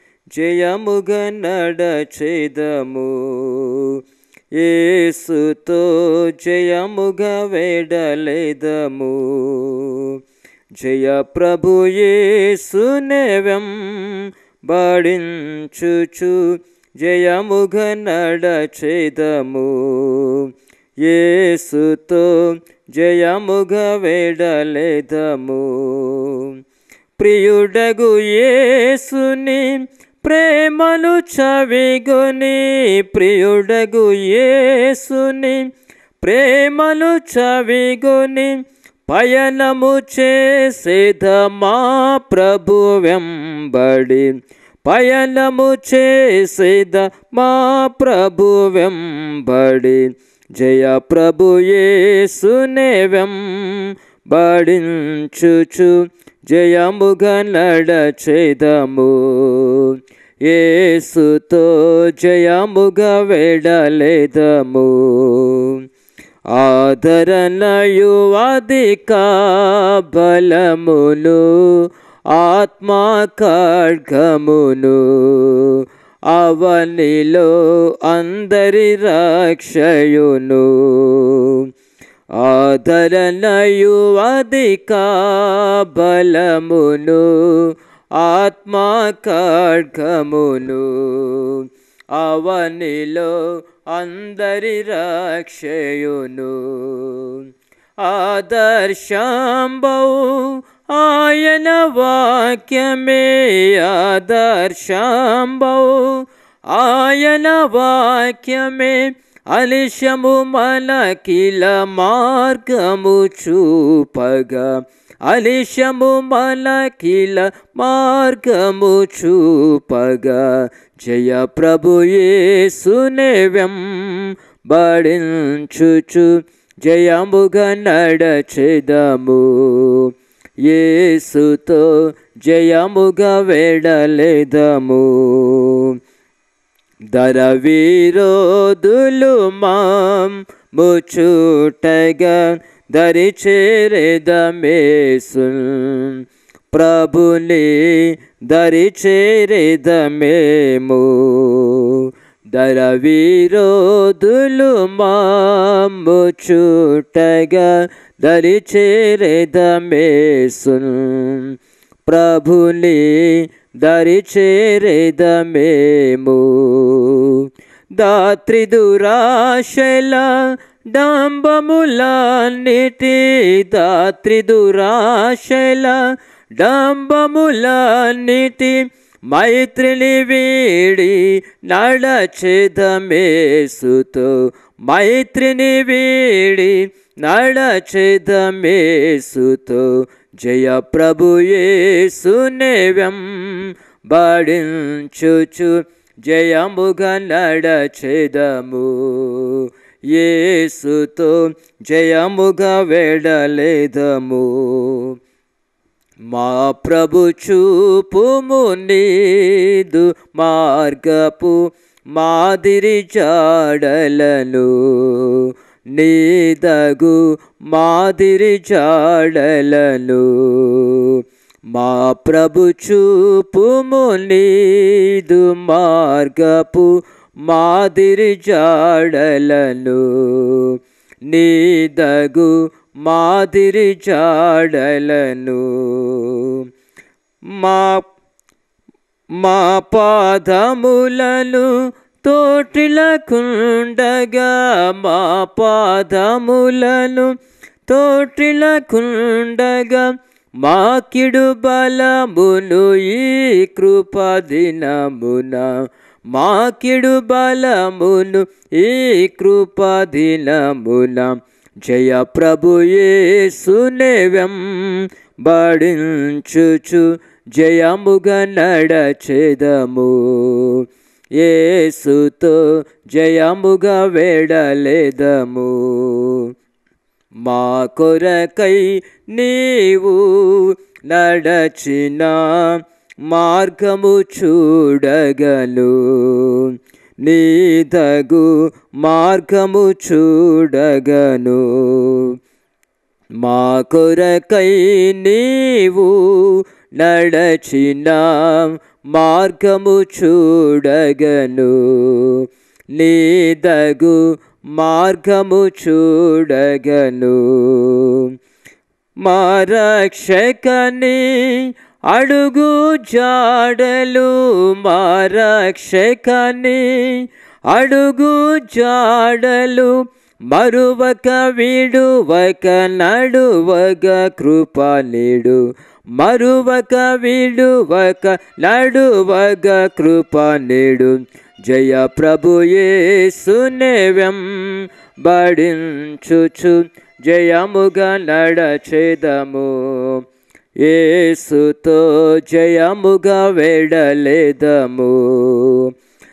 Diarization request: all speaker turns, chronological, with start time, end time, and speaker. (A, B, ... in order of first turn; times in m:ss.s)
0:00.3-0:04.0 A
0:04.6-0:10.2 A
0:10.8-0:20.5 A
0:21.0-0:26.5 A
0:27.2-0:35.7 A
0:36.2-0:38.5 A
0:39.1-0:44.3 A
0:44.8-1:05.8 A
1:06.5-1:21.7 A
1:22.4-1:37.4 A
1:38.0-2:10.1 A
2:10.6-2:15.9 A
2:17.1-2:26.2 A
2:26.7-2:41.5 A
2:42.1-2:47.4 A
2:48.0-2:56.0 A
2:56.6-3:25.1 A
3:26.3-3:31.6 A
3:32.1-3:46.9 A
3:47.4-3:50.8 A
3:51.3-3:56.6 A
3:57.5-3:58.0 A
3:59.4-4:07.3 A
4:07.9-4:30.8 A
4:31.4-4:36.5 A
4:37.4-4:52.3 A
4:53.4-5:08.3 A
5:09.2-5:19.9 A
5:20.5-5:25.6 A
5:26.1-5:40.2 A
5:40.8-5:45.9 A